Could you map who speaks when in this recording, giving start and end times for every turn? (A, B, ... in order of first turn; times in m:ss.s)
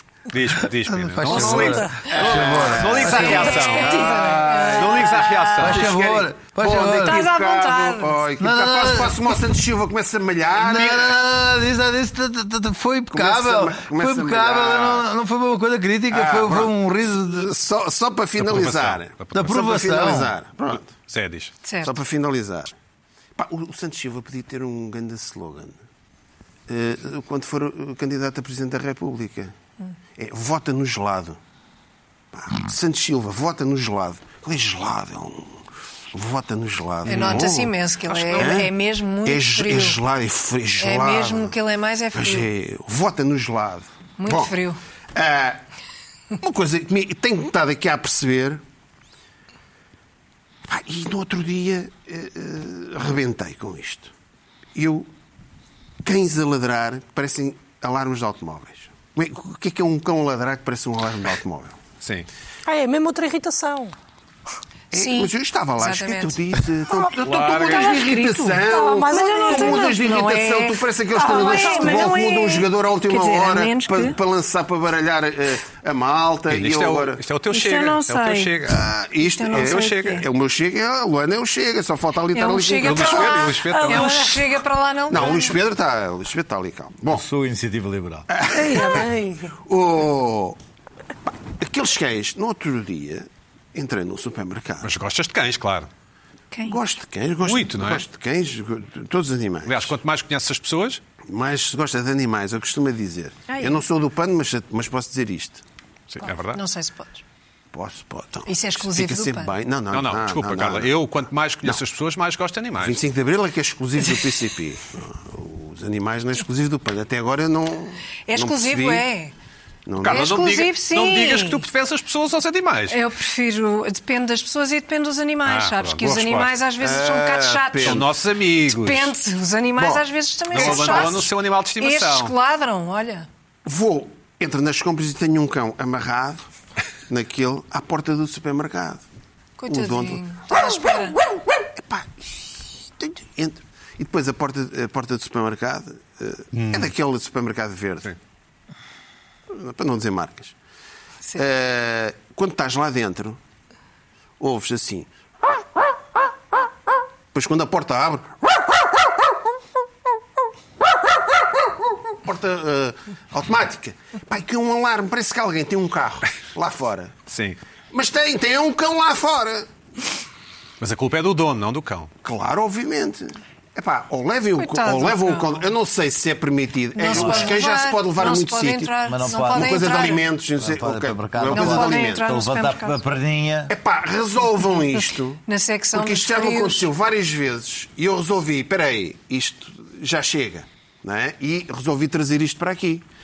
0:00.3-0:06.0 A
0:01.0-0:03.6 B
0:01.2-0:11.2 C
0:01.5-0:01.9 D
0:03.1-0:04.8 D
0:04.4-0:05.5 E
0:05.6-0:07.2 B
0:06.8-0:08.2 E
0:08.4-0:09.2 B
0:10.6-0:17.5 B
0:13.1-0:15.1 C
0:16.1-0:20.9 C
0:18.4-0:19.6 A
0:19.3-0:20.3 B
0:20.8-0:21.5 A
0:21.6-0:21.9 E
0:21.8-0:22.7 C
0:23.4-0:25.8 C
0:26.7-0:29.5 C
0:30.2-0:31.4 C
0:32.3-0:37.8 C
0:37.0-0:40.0 E
0:37.1-0:37.5 A
0:38.1-0:38.6 A
0:38.3-0:41.6 C
0:40.8-0:42.5 E
0:42.1-0:44.6 C
0:44.2-0:44.8 E
0:45.1-0:45.6 C
0:46.4-0:48.6 C
0:50.6-0:54.1 C
0:54.7-0:55.1 C
0:56.0-1:01.8 C
1:02.0-1:02.3 A
1:02.6-1:03.9 D
1:04.9-1:17.2 C
1:04.9-1:06.4 E
1:07.2-1:08.0 A
1:07.6-1:10.0 D
1:07.7-1:14.2 E
1:11.1-1:12.2 D
1:16.5-1:18.8 A
1:17.5-1:18.5 E
1:18.6-1:23.6 C
1:19.2-1:20.2 E
1:19.5-1:20.2 A
1:22.3-1:25.6 E
1:22.8-1:24.3 A
1:23.6-1:24.4 D
1:25.1-1:27.2 C
1:27.1-1:28.3 B
1:28.3-1:30.6 C
1:28.5-1:29.5 D
1:31.2-1:34.9 C
1:34.8-1:35.9 A
1:36.5-1:36.8 E
1:36.6-1:40.0 C
1:37.4-1:38.0 A
1:39.6-1:41.0 A
1:41.2-1:45.6 C
1:43.5-1:43.8 E
1:46.1-1:46.6 A
1:46.5-1:47.2 E
1:47.7-1:50.9 C
1:48.4-1:49.5 E
1:49.9-1:53.0 A
1:52.8-1:59.0 C
1:58.3-1:59.3 E
1:59.8-2:00.4 C
2:00.0-2:03.0 A
2:00.0-2:01.6 E
2:02.9-2:08.1 E
2:05.4-2:06.5 A
2:06.8-2:08.1 C
2:07.8-2:09.1 A
2:08.6-2:13.3 E
2:09.8-2:11.2 C
2:10.5-2:12.3 A
2:13.6-2:16.4 C
2:17.1-2:19.0 C
2:19.6-2:21.2 E
2:19.7-2:28.1 C
2:26.5-2:26.9 A
2:29.5-2:30.5 C
2:31.3-2:33.4 C
2:34.4-2:35.1 C
2:37.3-2:39.4 C
2:40.8-2:47.1 C
2:47.3-2:47.6 A
2:47.9-2:49.7 C
2:50.8-2:52.1 A
2:52.2-3:02.3 C
2:54.6-2:55.7 E
2:56.9-3:00.2 E
2:57.1-2:57.5 B
2:59.0-3:00.0 B
3:00.6-3:03.7 B
3:01.5-3:03.0 E
3:03.7-3:05.4 C
3:05.4-3:06.9 E
3:05.9-3:13.0 C